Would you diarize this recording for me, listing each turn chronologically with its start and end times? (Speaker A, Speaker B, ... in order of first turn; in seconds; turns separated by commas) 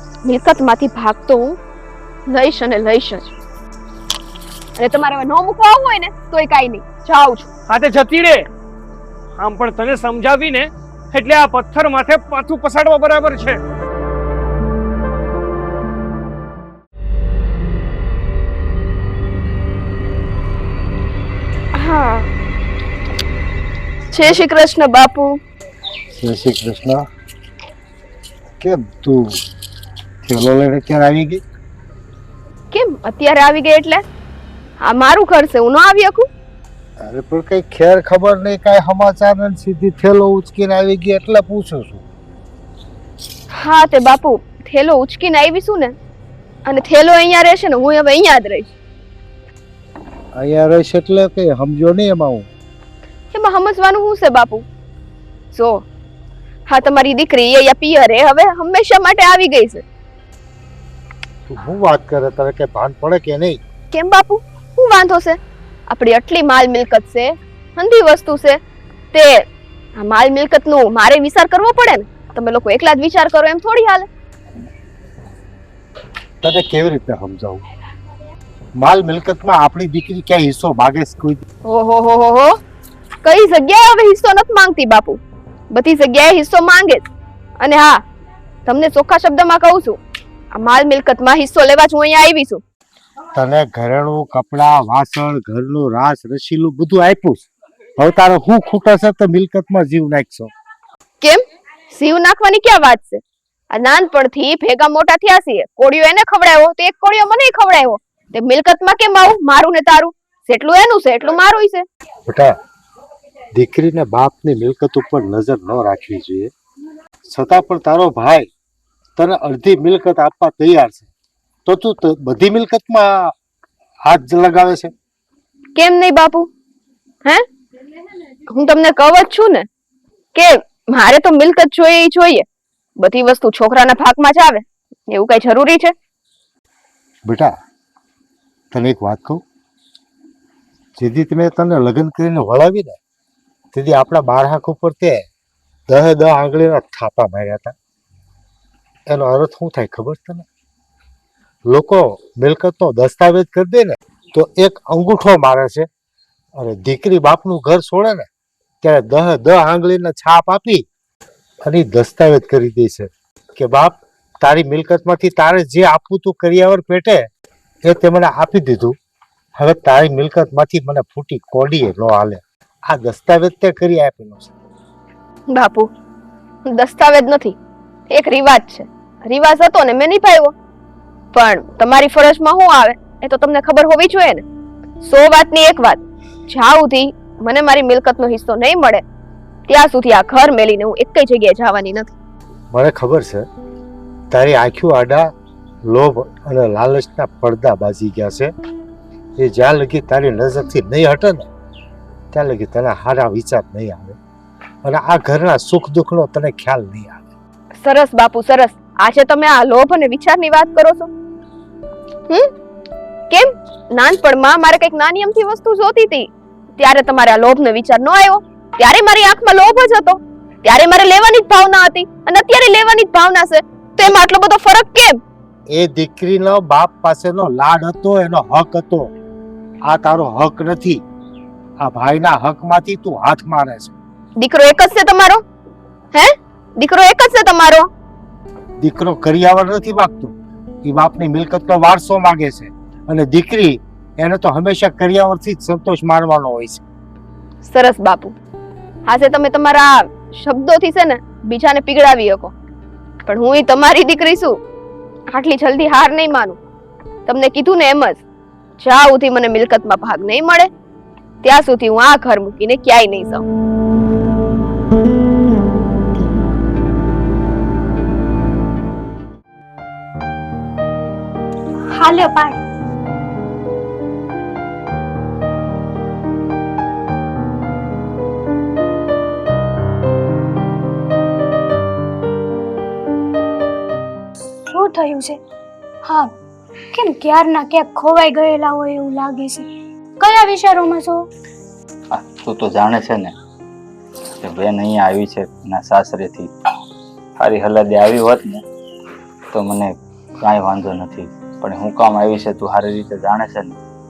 Speaker A: 0.2-1.6, Speaker A: 2.3-3.3, Speaker A: 4.8-7.5, Speaker B: 7.7-8.4, Speaker B: 9.4-13.6, Speaker A: 21.7-22.3, Speaker A: 24.1-25.4, Speaker C: 26.1-27.1, Speaker C: 28.6-29.4, Speaker C: 30.2-31.4, Speaker A: 32.7-34.0, Speaker A: 34.8-36.3, Speaker C: 37.0-42.0, Speaker A: 43.5-45.9, Speaker A: 46.6-48.7, Speaker C: 50.4-52.5, Speaker A: 53.3-54.6, Speaker A: 55.5-55.8, Speaker A: 56.7-59.8, Speaker C: 61.5-63.6, Speaker A: 63.9-68.6, Speaker A: 69.1-69.4, Speaker A: 70.0-74.1, Speaker C: 76.4-77.6, Speaker C: 78.8-81.4, Speaker A: 81.6-82.6, Speaker A: 83.2-87.0, Speaker A: 87.6-88.0, Speaker A: 88.7-90.0, Speaker A: 90.5-92.6, Speaker C: 93.3-97.5, Speaker C: 98.0-100.5, Speaker A: 101.2-111.8, Speaker C: 112.3-112.5, Speaker C: 113.5-116.5, Speaker C: 117.2-118.5, Speaker C: 119.2-121.1, Speaker C: 121.7-123.3, Speaker C: 124.0-124.9, Speaker A: 125.8-126.5, Speaker A: 128.5-129.7, Speaker A: 130.3-132.4, Speaker A: 133.0-135.9, Speaker C: 137.3-137.5, Speaker C: 138.7-139.4, Speaker C: 141.0-143.0, Speaker C: 143.7-145.3, Speaker C: 145.9-147.7, Speaker C: 149.1-150.5, Speaker C: 151.7-155.9, Speaker C: 156.6-158.3, Speaker C: 158.8-160.8, Speaker C: 161.6-167.3, Speaker C: 167.8-168.9, Speaker C: 169.6-174.5, Speaker A: 175.5-175.9, Speaker A: 176.7-177.6, Speaker A: 178.1-180.5, Speaker A: 181.3-184.4, Speaker A: 185.0-189.0, Speaker A: 189.7-192.1, Speaker C: 192.7-193.4, Speaker C: 194.3-195.3, Speaker C: 195.9-198.5, Speaker C: 199.4-201.5, Speaker C: 202.3-204.2, Speaker C: 204.8-207.2, Speaker A: 207.8-211.1, Speaker A: 213.3-225.2, Speaker C: 225.7-229.1, Speaker C: 229.9-231.0, Speaker C: 231.8-233.9, Speaker A: 234.4-235.4, Speaker A: 236.1-237.9, Speaker C: 238.8-240.3, Speaker C: 240.8-246.8, Speaker A: 247.6-248.3, Speaker A: 249.1-252.5, Speaker A: 253.2-254.6, Speaker A: 255.3-256.6, Speaker A: 257.2-258.2, Speaker A: 258.8-260.7, Speaker A: 261.4-263.4, Speaker D: 271.9-272.6, Speaker D: 284.7-285.4, Speaker D: 286.0-286.3, Speaker D: 286.9-289.7, Speaker D: 290.2-291.2, Speaker E: 292.1-293.3, Speaker E: 294.4-296.5, Speaker E: 297.4-298.6, Speaker E: 299.5-303.8